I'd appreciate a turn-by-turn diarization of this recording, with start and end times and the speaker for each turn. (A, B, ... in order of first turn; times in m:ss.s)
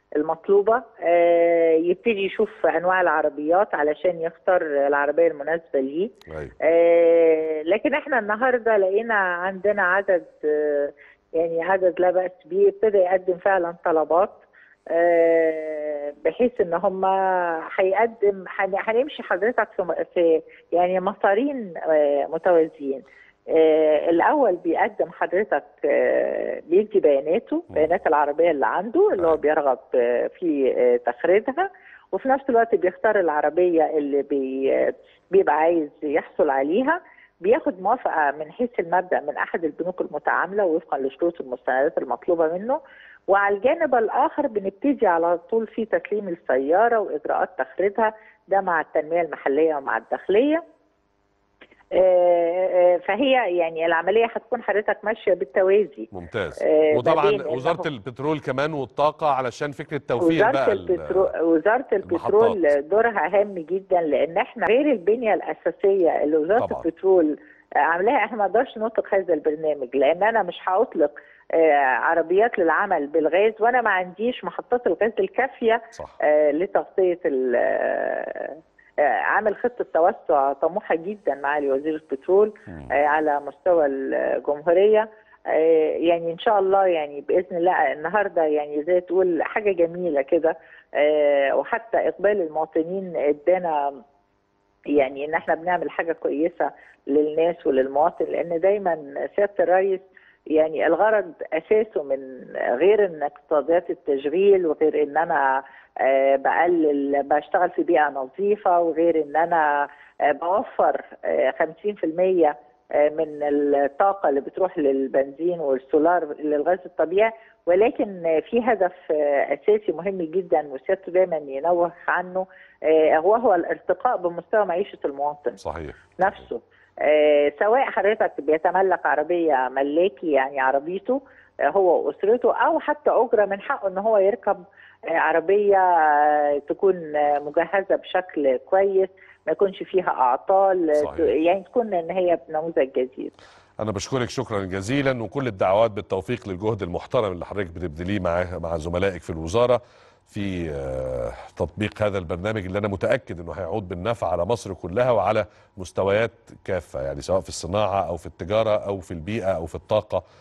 0:00.2-0:42.8 A
0:06.3-0:06.5 B
0:43.3-0:50.6 A
0:51.9-0:56.1 A
0:56.1-1:01.3 B
0:56.6-0:57.9 A
1:00.2-1:34.0 A
1:02.1-1:02.7 B
1:06.6-1:06.9 B
1:34.9-2:05.6 A
2:05.6-2:06.2 B
2:06.2-2:14.6 A
2:15.2-2:23.3 A
2:21.0-2:21.3 B
2:23.8-2:40.2 B